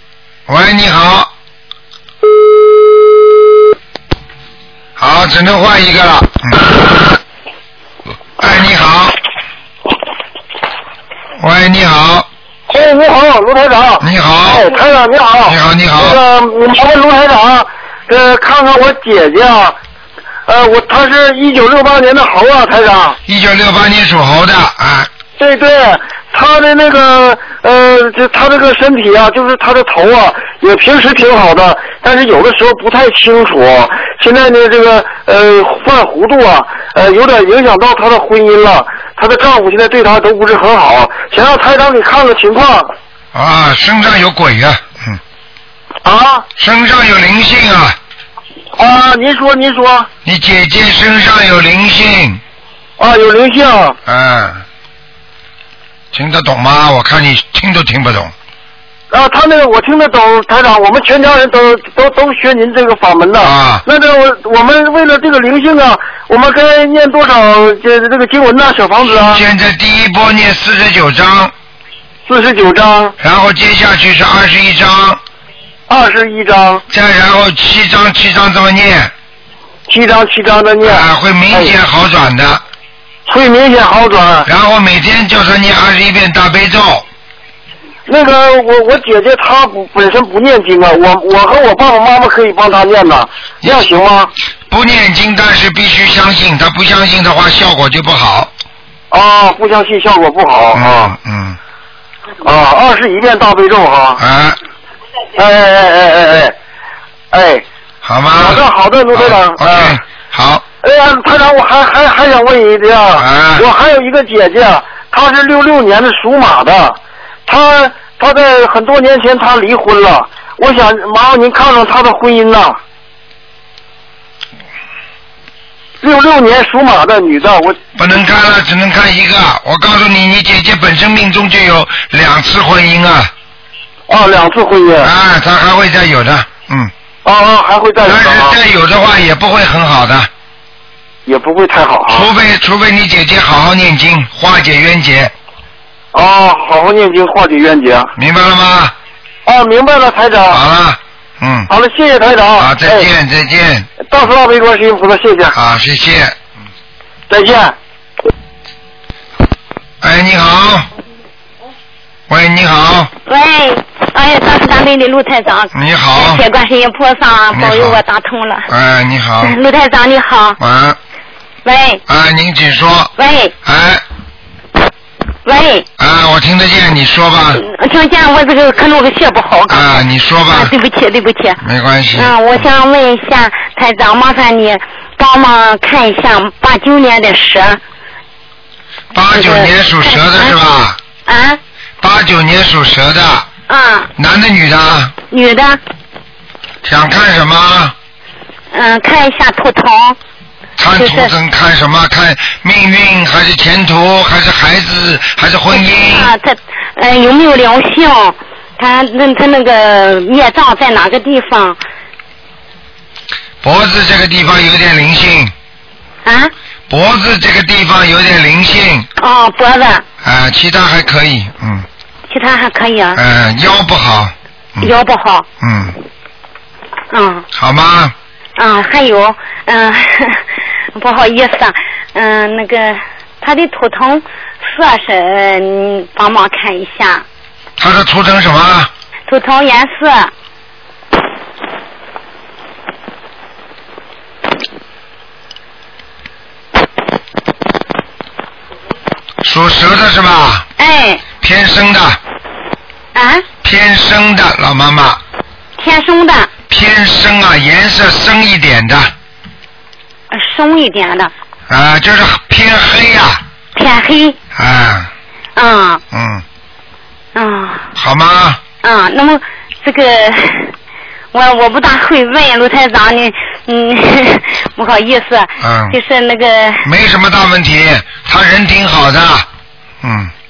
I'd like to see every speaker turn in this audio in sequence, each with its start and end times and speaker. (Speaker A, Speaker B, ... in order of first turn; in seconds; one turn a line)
Speaker A: 0.5-1.3
Speaker A: 5.0-6.7
Speaker A: 8.4-9.2
Speaker A: 11.4-12.3
Speaker B: 12.7-19.8
Speaker A: 14.0-14.7
Speaker A: 15.5-16.2
Speaker B: 20.5-23.2
Speaker A: 23.3-25.1
Speaker B: 25.4-42.9
Speaker A: 43.3-45.2
Speaker B: 46.0-46.5
Speaker A: 46.6-48.0
Speaker B: 48.8-50.1
Speaker A: 50.2-52.4
Speaker B: 53.0-54.0
Speaker A: 54.1-54.6
Speaker A: 56.1-58.3
Speaker B: 59.1-69.4
Speaker A: 63.4-63.9
Speaker A: 69.1-71.5
Speaker B: 72.3-73.2
Speaker A: 73.2-75.2
Speaker B: 75.9-76.8
Speaker A: 76.9-79.1
Speaker B: 79.9-81.7
Speaker A: 80.8-82.6
Speaker B: 83.3-84.5
Speaker A: 84.5-87.1
Speaker B: 88.1-94.3
Speaker A: 94.7-98.5
Speaker B: 99.1-101.1
Speaker A: 100.7-101.6
Speaker B: 102.4-104.2
Speaker A: 104.2-104.6
Speaker B: 105.4-106.5
Speaker B: 107.3-107.6
Speaker A: 108.0-110.6
Speaker B: 108.3-110.0
Speaker B: 110.8-122.8
Speaker A: 113.2-113.7
Speaker B: 126.0-127.8
Speaker A: 128.0-133.3
Speaker B: 134.1-135.1
Speaker A: 135.0-136.9
Speaker B: 137.2-138.6
Speaker A: 138.0-140.3
Speaker B: 141.3-142.3
Speaker A: 142.1-145.3
Speaker B: 146.1-148.1
Speaker A: 148.2-148.9
Speaker B: 149.4-150.6
Speaker A: 150.5-151.7
Speaker B: 151.7-153.1
Speaker A: 152.6-153.9
Speaker B: 154.0-155.6
Speaker A: 155.5-156.4
Speaker B: 157.3-157.8
Speaker A: 160.0-160.9
Speaker A: 162.3-163.1
Speaker C: 163.3-168.7
Speaker A: 165.7-166.4
Speaker A: 167.5-168.0
Speaker A: 168.7-169.5
Speaker C: 169.4-170.6
Speaker A: 170.6-171.0
Speaker C: 171.7-172.0
Speaker A: 172.1-173.1
Speaker C: 173.2-173.5
Speaker A: 173.7-174.0
Speaker C: 175.4-175.9
Speaker A: 176.0-177.6
Speaker C: 177.6-181.6
Speaker A: 179.7-180.7
Speaker A: 181.6-182.3
Speaker C: 182.1-187.8
Speaker A: 189.1-191.0
Speaker C: 189.3-190.6
Speaker C: 191.3-191.6
Speaker A: 192.0-193.5
Speaker C: 193.7-194.1
Speaker A: 194.2-195.1
Speaker C: 195.3-195.8
Speaker A: 196.8-197.9
Speaker C: 198.7-200.2
Speaker A: 200.8-206.3
Speaker C: 200.9-201.3
Speaker C: 205.7-211.8
Speaker A: 213.6-215.5
Speaker C: 216.2-216.5
Speaker A: 216.9-219.1
Speaker C: 219.2-220.1
Speaker A: 220.2-221.9
Speaker C: 222.3-223.2
Speaker A: 223.2-224.9
Speaker C: 224.8-225.5
Speaker A: 225.6-226.0
Speaker C: 227.1-227.5
Speaker A: 227.6-228.1
Speaker C: 228.6-237.2
Speaker A: 237.8-238.9
Speaker C: 239.3-240.3
Speaker A: 249.4-250.7
Speaker C: 250.8-251.2
Speaker A: 251.4-252.2
Speaker C: 253.2-253.4
Speaker A: 253.6-255.2
Speaker C: 255.8-256.5
Speaker A: 256.7-259.1
Speaker C: 260.3-261.3
Speaker A: 261.7-263.4
Speaker C: 263.8-264.4
Speaker A: 264.6-265.1
Speaker C: 265.6-266.0
Speaker A: 266.1-266.4
Speaker C: 267.4-267.9
Speaker A: 268.0-268.6
Speaker C: 268.8-270.7
Speaker C: 271.3-276.9
Speaker A: 275.6-276.0
Speaker A: 276.8-279.5
Speaker A: 280.0-280.3